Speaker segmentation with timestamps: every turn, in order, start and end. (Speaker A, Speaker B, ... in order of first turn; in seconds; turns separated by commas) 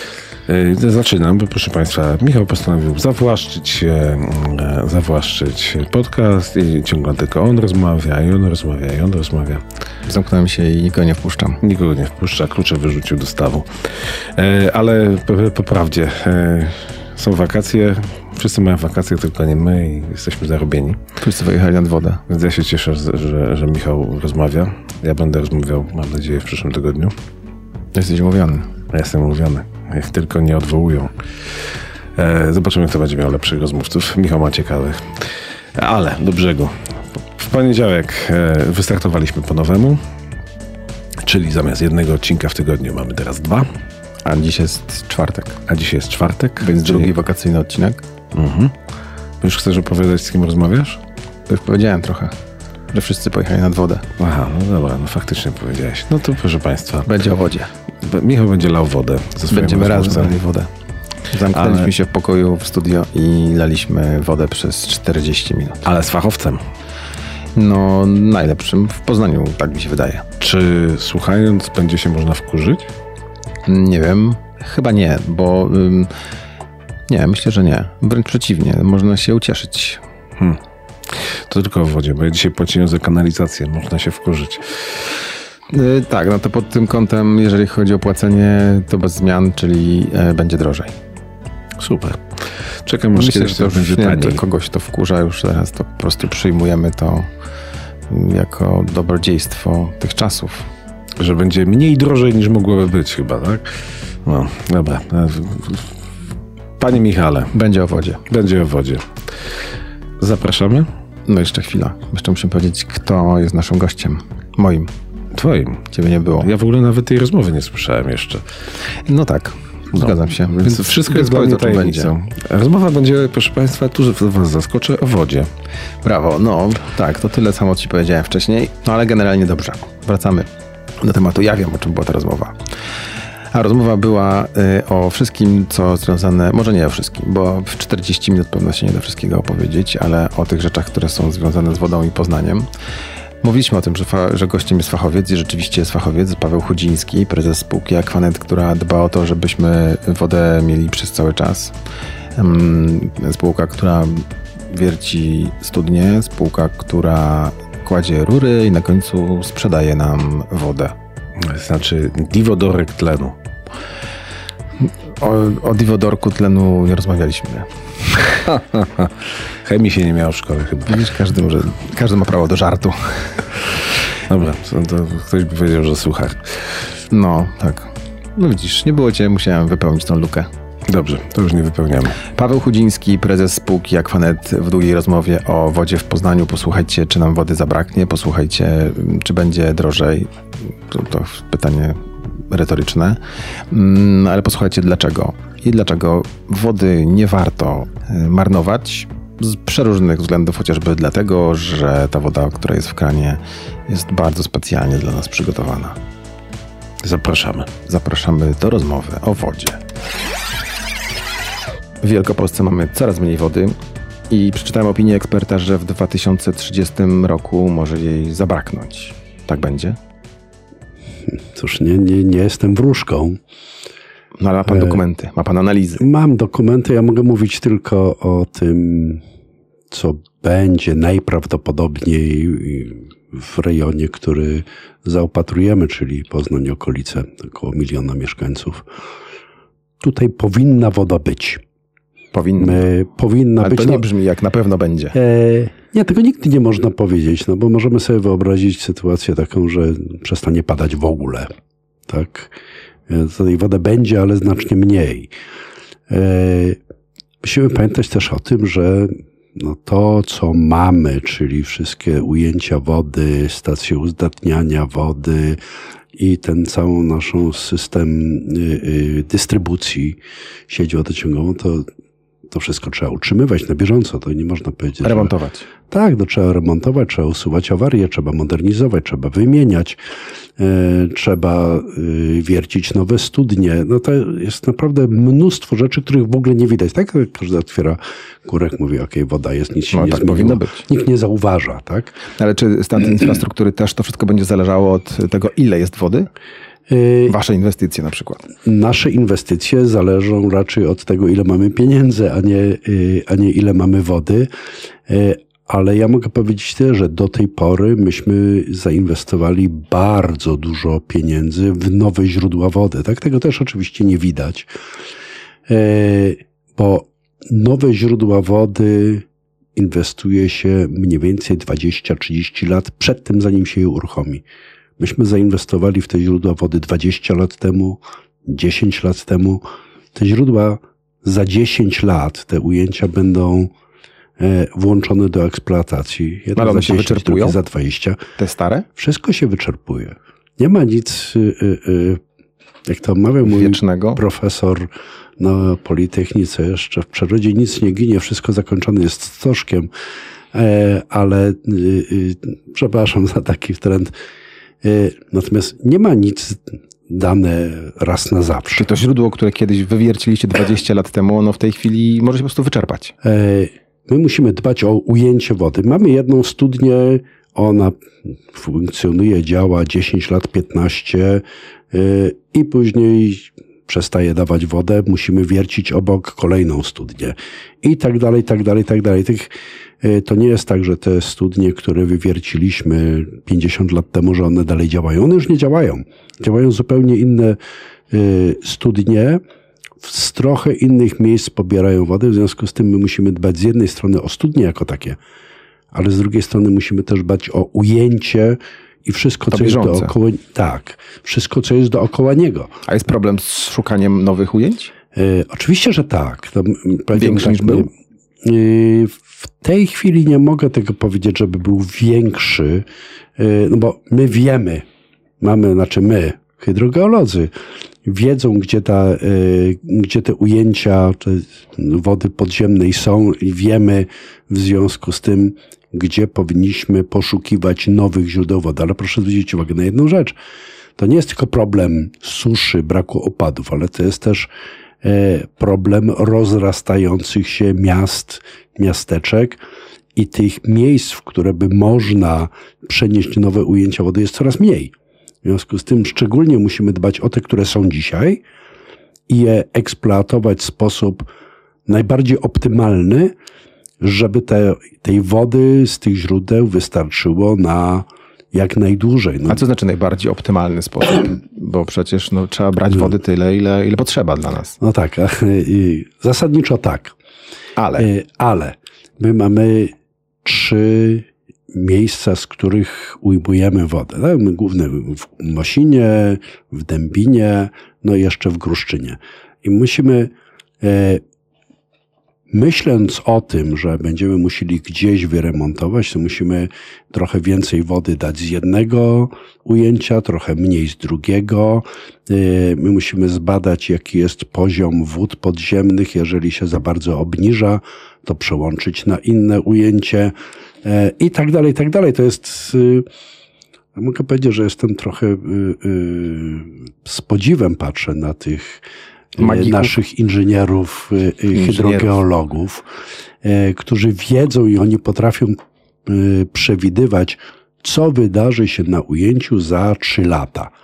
Speaker A: 0.5-9.6, Speaker B: 10.1-11.6, Speaker A: 11.6-21.0, Speaker B: 21.2-22.2, Speaker A: 22.3-27.1, Speaker B: 27.9-28.7, Speaker A: 28.9-40.0, Speaker A: 41.2-43.7, Speaker B: 44.2-45.6, Speaker A: 45.7-47.1, Speaker B: 46.6-48.0, Speaker A: 48.3-48.7, Speaker A: 49.4-51.0, Speaker B: 51.5-52.3, Speaker B: 52.9-54.1, Speaker A: 54.2-57.3, Speaker B: 57.0-57.7, Speaker A: 58.0-60.4, Speaker B: 59.5-60.7, Speaker B: 61.3-65.8, Speaker A: 61.5-61.9, Speaker A: 65.8-66.6, Speaker B: 67.5-70.2, Speaker A: 70.4-72.9, Speaker B: 73.6-76.1, Speaker B: 77.1-80.0, Speaker A: 80.4-85.2, Speaker B: 85.7-90.9, Speaker A: 91.8-94.4, Speaker B: 93.1-97.3, Speaker B: 98.1-100.7, Speaker A: 101.2-106.0, Speaker A: 106.8-107.5, Speaker B: 107.5-108.2, Speaker A: 108.3-109.1, Speaker A: 110.2-110.9, Speaker B: 111.3-114.9, Speaker A: 115.3-115.9, Speaker B: 115.9-116.5, Speaker A: 116.4-118.5, Speaker B: 119.0-122.1, Speaker A: 119.9-125.5, Speaker B: 126.0-132.6, Speaker B: 133.5-142.7, Speaker B: 143.4-151.7, Speaker B: 152.3-160.9, Speaker A: 161.4-163.3, Speaker B: 164.8-168.4, Speaker A: 168.4-171.1, Speaker B: 170.9-173.5, Speaker A: 174.2-176.9, Speaker B: 177.1-180.5, Speaker A: 180.9-182.2, Speaker B: 182.3-206.0, Speaker A: 207.0-207.7, Speaker B: 207.8-209.8, Speaker B: 212.0-213.8, Speaker B: 214.3-220.0, Speaker C: 221.3-223.4, Speaker B: 224.4-226.0, Speaker C: 224.7-225.0, Speaker C: 226.0-229.2, Speaker C: 229.9-238.9, Speaker C: 240.0-241.6, Speaker B: 242.3-242.8, Speaker C: 242.6-244.0, Speaker B: 243.6-245.2, Speaker C: 245.1-251.5, Speaker C: 252.1-252.6, Speaker C: 253.1-255.3, Speaker C: 256.1-256.8, Speaker C: 257.4-265.6, Speaker C: 266.1-271.9, Speaker C: 272.5-275.3, Speaker B: 275.0-275.7, Speaker C: 275.9-280.0, Speaker C: 280.6-292.1, Speaker B: 289.9-290.8, Speaker B: 292.4-296.3, Speaker C: 296.9-297.3, Speaker B: 297.2-298.4, Speaker C: 298.6-304.5, Speaker C: 305.1-314.7, Speaker C: 315.7-324.4, Speaker C: 325.0-329.6, Speaker C: 330.1-333.7, Speaker C: 334.4-338.2, Speaker B: 336.6-337.6, Speaker B: 338.4-338.9, Speaker C: 339.0-342.2, Speaker C: 342.9-349.9, Speaker B: 343.4-344.2, Speaker C: 350.5-354.1, Speaker C: 354.8-358.9, Speaker B: 358.7-363.1, Speaker C: 363.2-387.6, Speaker C: 388.1-389.4, Speaker C: 390.0-395.2, Speaker C: 395.9-402.7, Speaker B: 399.5-400.1, Speaker B: 402.9-404.9, Speaker C: 405.1-407.9, Speaker B: 407.1-407.9, Speaker C: 408.4-414.8, Speaker C: 415.4-417.5, Speaker C: 418.0-430.4, Speaker C: 431.0-434.5, Speaker C: 435.0-439.6, Speaker C: 440.1-444.9, Speaker C: 445.4-448.4, Speaker C: 449.3-451.3, Speaker C: 451.9-453.3, Speaker C: 454.0-459.6, Speaker B: 459.5-464.8, Speaker C: 464.8-467.1, Speaker B: 467.8-468.1, Speaker C: 468.0-469.9, Speaker C: 470.4-481.2, Speaker C: 482.5-503.1, Speaker C: 503.9-508.8, Speaker C: 509.4-512.9, Speaker B: 509.4-509.9, Speaker B: 511.5-512.2, Speaker C: 513.4-520.7